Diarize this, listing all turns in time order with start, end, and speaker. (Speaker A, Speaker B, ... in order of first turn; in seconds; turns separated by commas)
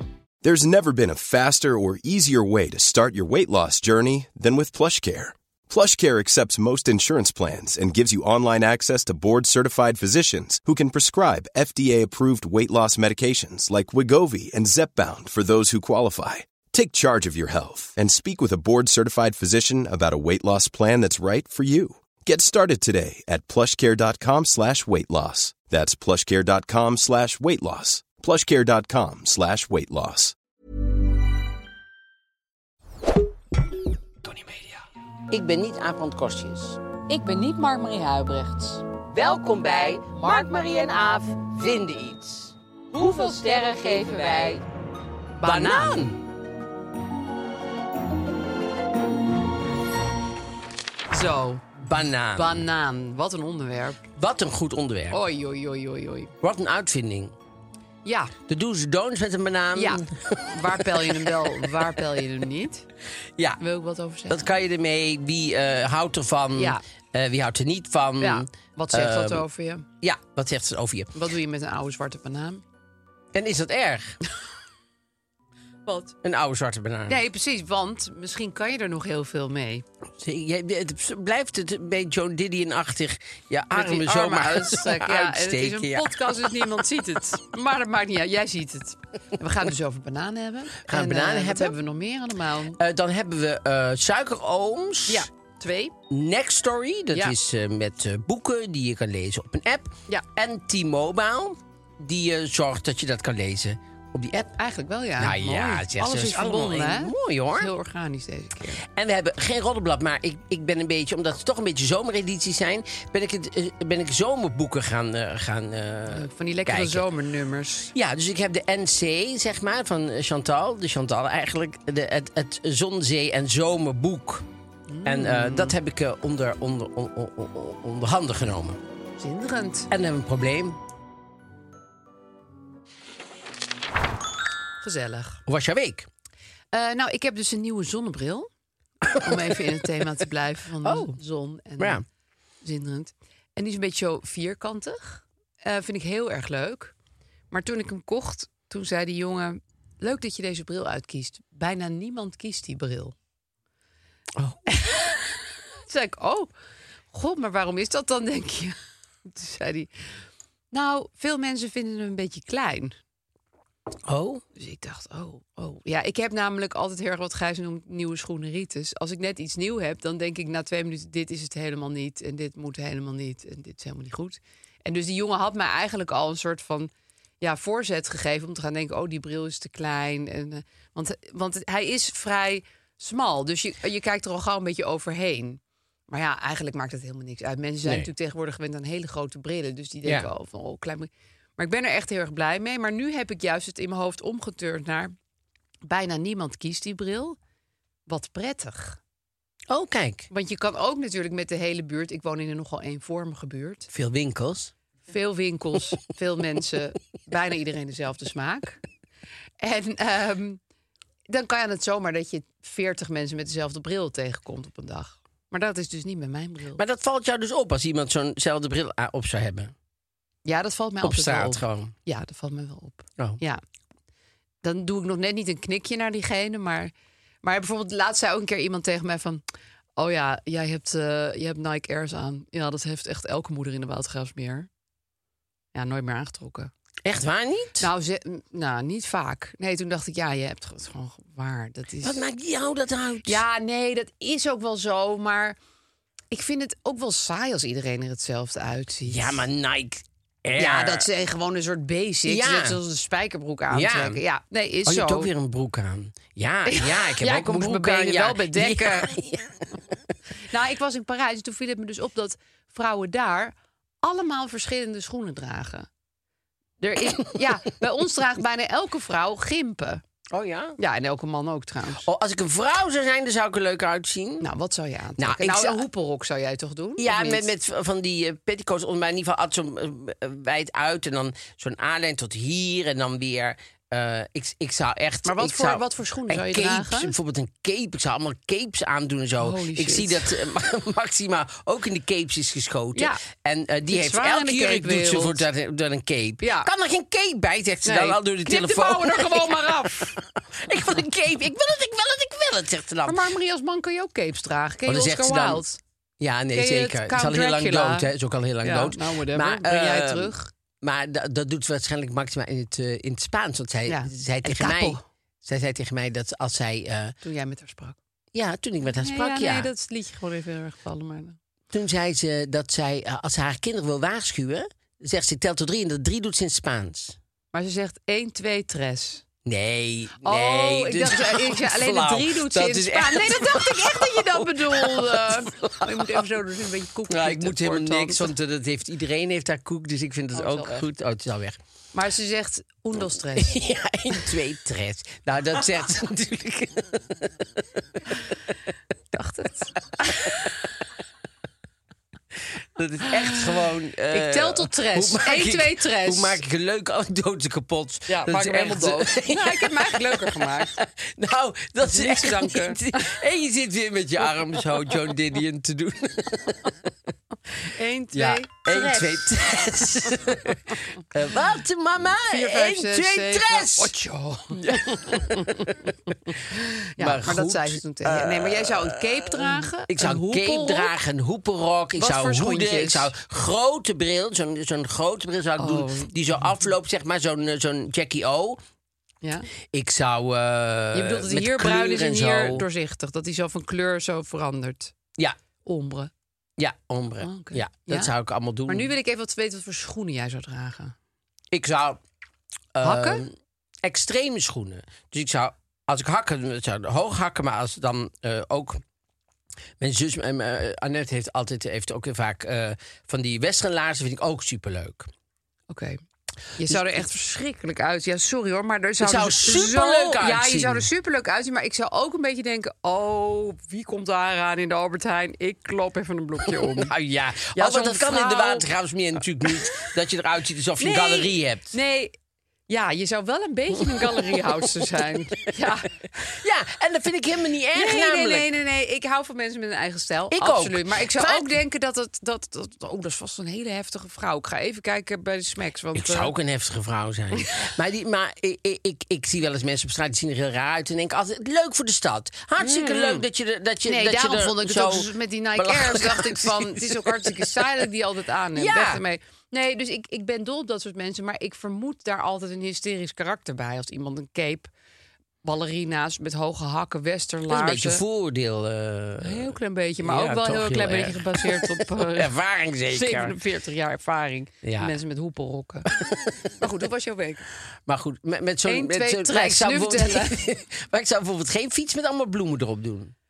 Speaker A: 0.4-30.3, Speaker B: 35.3-36.8, Speaker C: 37.1-38.8, Speaker B: 39.0-44.6, Speaker C: 45.4-46.1, Speaker B: 45.4-46.2, Speaker C: 51.1-51.7, Speaker B: 51.8-52.6, Speaker C: 52.3-54.0, Speaker B: 54.1-55.2, Speaker C: 55.1-56.3, Speaker B: 56.4-57.3, Speaker C: 58.0-58.3, Speaker B: 58.5-61.9, Speaker C: 59.7-62.9, Speaker C: 63.6-64.5, Speaker B: 64.3-69.4, Speaker C: 66.5-66.8, Speaker C: 68.2-69.9, Speaker B: 70.0-71.1, Speaker C: 71.1-72.6, Speaker B: 73.3-74.2, Speaker C: 75.8-76.2, Speaker B: 76.2-77.2, Speaker C: 77.1-79.8, Speaker B: 80.2-86.6, Speaker C: 83.7-92.8, Speaker B: 90.8-91.8, Speaker B: 92.8-95.3, Speaker C: 95.1-95.9, Speaker B: 96.1-104.6, Speaker C: 104.6-108.8, Speaker B: 105.2-107.7, Speaker B: 108.8-117.0, Speaker C: 116.1-117.9, Speaker B: 117.9-124.5, Speaker C: 124.9-125.8, Speaker B: 125.0-128.8, Speaker C: 129.2-129.9, Speaker B: 129.9-130.8, Speaker C: 134.8-135.4, Speaker B: 135.4-136.1, Speaker C: 136.7-138.5, Speaker B: 139.0-139.5, Speaker C: 139.2-142.0, Speaker B: 140.8-141.2, Speaker B: 141.8-142.0, Speaker C: 142.6-146.9, Speaker C: 147.5-153.1, Speaker B: 154.3-154.7, Speaker C: 154.7-155.1, Speaker C: 155.9-156.5, Speaker C: 157.1-159.9, Speaker C: 160.7-162.9, Speaker B: 164.1-164.4, Speaker C: 164.6-195.1, Speaker B: 187.8-188.1, Speaker C: 195.8-197.4, Speaker C: 198.1-199.0, Speaker B: 199.7-200.3, Speaker C: 200.3-203.9, Speaker B: 203.9-204.7, Speaker C: 205.0-208.8, Speaker C: 209.6-210.6, Speaker C: 211.3-216.8, Speaker B: 216.8-219.7, Speaker C: 220.4-223.6, Speaker B: 221.0-221.9, Speaker C: 224.6-229.4, Speaker C: 230.0-234.7, Speaker C: 235.7-236.7, Speaker B: 237.0-237.9, Speaker C: 237.8-242.2, Speaker B: 242.0-243.4, Speaker C: 243.2-245.6, Speaker C: 246.3-249.4, Speaker B: 249.1-251.1, Speaker C: 250.5-255.3, Speaker B: 252.2-252.8, Speaker B: 253.7-254.2, Speaker B: 254.8-259.9, Speaker C: 256.6-259.1, Speaker C: 260.5-265.9, Speaker C: 266.8-270.0, Speaker B: 270.3-270.8, Speaker C: 270.8-272.1, Speaker B: 272.0-274.5, Speaker C: 274.4-277.5, Speaker B: 275.2-275.8, Speaker B: 277.0-303.2, Speaker C: 285.2-287.1, Speaker C: 289.4-290.3, Speaker C: 292.9-293.2, Speaker C: 293.9-295.4, Speaker C: 296.4-296.7, Speaker C: 297.8-300.2, Speaker C: 303.0-305.8, Speaker B: 304.9-305.6, Speaker B: 306.2-317.1, Speaker C: 306.5-310.5, Speaker C: 313.9-315.0, Speaker C: 317.2-318.0, Speaker B: 318.3-319.7, Speaker C: 319.0-321.4, Speaker B: 321.7-327.2, Speaker C: 327.5-329.2, Speaker B: 329.4-336.3, Speaker C: 330.2-338.3, Speaker B: 337.1-341.6, Speaker C: 340.3-340.8, Speaker C: 341.9-343.6, Speaker B: 343.4-347.4, Speaker C: 349.1-350.3, Speaker B: 352.5-366.8, Speaker C: 354.1-356.4, Speaker C: 358.1-360.8, Speaker C: 361.8-363.2, Speaker C: 367.6-369.4, Speaker B: 368.1-373.9, Speaker C: 372.2-380.9, Speaker B: 374.7-375.5, Speaker B: 377.0-388.6, Speaker C: 382.0-383.1, Speaker C: 385.6-386.5, Speaker C: 389.2-389.5, Speaker B: 389.7-392.6, Speaker C: 390.9-394.9, Speaker C: 395.6-396.1, Speaker B: 396.6-398.9, Speaker C: 397.2-398.1, Speaker C: 398.7-400.9, Speaker B: 401.5-402.0, Speaker B: 402.7-408.8, Speaker C: 402.8-403.3, Speaker B: 409.8-415.1, Speaker C: 415.7-416.0, Speaker C: 416.6-426.9, Speaker B: 416.6-417.0, Speaker B: 419.0-420.9, Speaker B: 426.4-431.8, Speaker C: 427.5-428.7, Speaker C: 429.4-429.9, Speaker C: 430.8-432.1, Speaker C: 432.7-436.3, Speaker B: 433.7-434.8, Speaker B: 436.2-438.5, Speaker C: 437.7-446.3, Speaker B: 440.3-441.5, Speaker B: 445.9-457.6, Speaker C: 452.6-453.2, Speaker C: 453.8-464.7, Speaker B: 458.5-459.0, Speaker C: 465.4-468.0, Speaker B: 467.5-473.4, Speaker C: 469.2-472.3, Speaker C: 472.9-475.9, Speaker B: 474.6-474.9, Speaker B: 475.9-476.5, Speaker C: 476.4-477.4, Speaker B: 477.9-483.1, Speaker C: 478.6-480.4